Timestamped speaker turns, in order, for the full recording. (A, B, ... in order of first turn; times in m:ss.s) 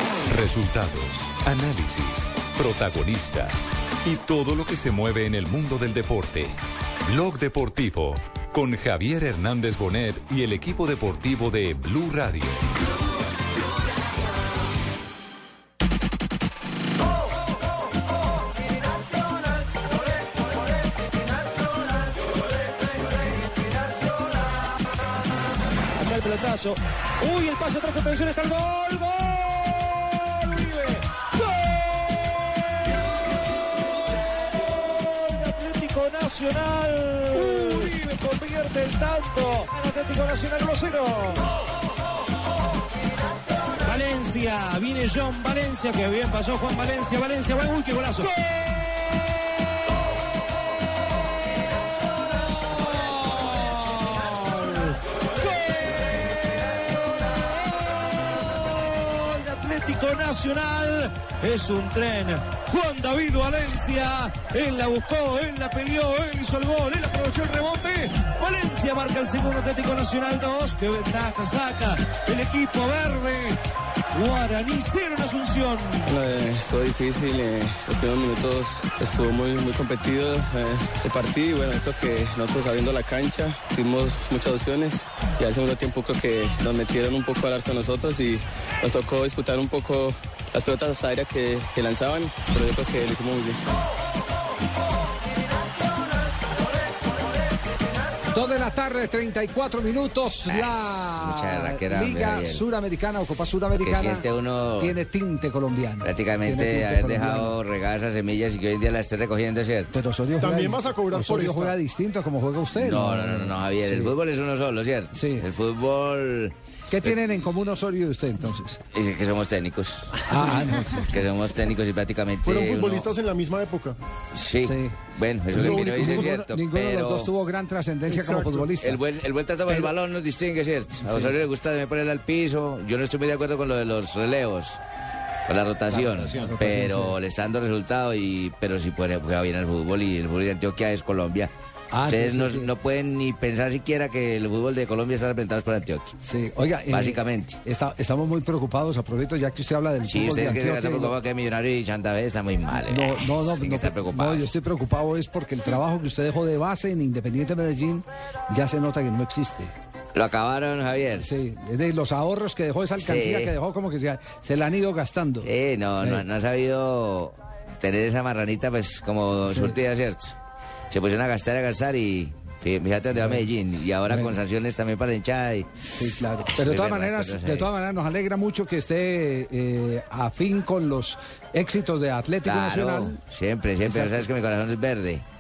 0:00.2-0:12.7 A
0:25.9-0:32.9 B
0:34.5-0:41.4 B
0:43.8-0:48.5 B
0:52.6-0:56.3 B
0:57.8-1:13.6 B
1:14.1-1:16.1 B
1:16.0-1:33.6 C
1:38.3-1:44.2 D
1:40.5-1:42.6 E
1:43.8-1:45.0 E
1:44.8-1:47.6 D
1:46.0-1:50.0 E
1:49.9-1:54.1 D
1:50.4-1:51.8 F
1:52.8-1:56.5 E
1:55.1-1:55.5 D
1:56.9-1:58.8 D
1:58.9-2:03.1 E
2:00.2-2:01.1 D
2:02.4-2:04.0 F
2:04.3-2:07.3 E
2:04.6-2:04.9 D
2:05.5-2:09.0 D
2:05.7-2:06.3 F
2:08.1-2:08.7 F
2:08.8-2:14.8 E
2:11.0-2:11.3 D
2:15.5-2:21.5 E
2:15.9-2:17.2 D
2:21.9-2:22.7 D
2:22.1-2:26.2 E
2:26.2-2:31.2 D
2:26.9-2:27.6 E
2:30.1-2:34.5 E
2:32.9-2:39.7 D
2:40.2-2:41.3 E
2:41.2-2:45.5 D
2:43.0-2:43.5 E
2:45.4-2:50.3 E
2:49.5-2:49.8 D
2:50.9-2:55.7 E
2:53.1-2:53.5 D
2:54.1-2:54.3 D
2:55.9-3:03.2 D
2:56.5-2:57.7 E
3:02.4-3:05.2 E
3:03.8-3:04.2 D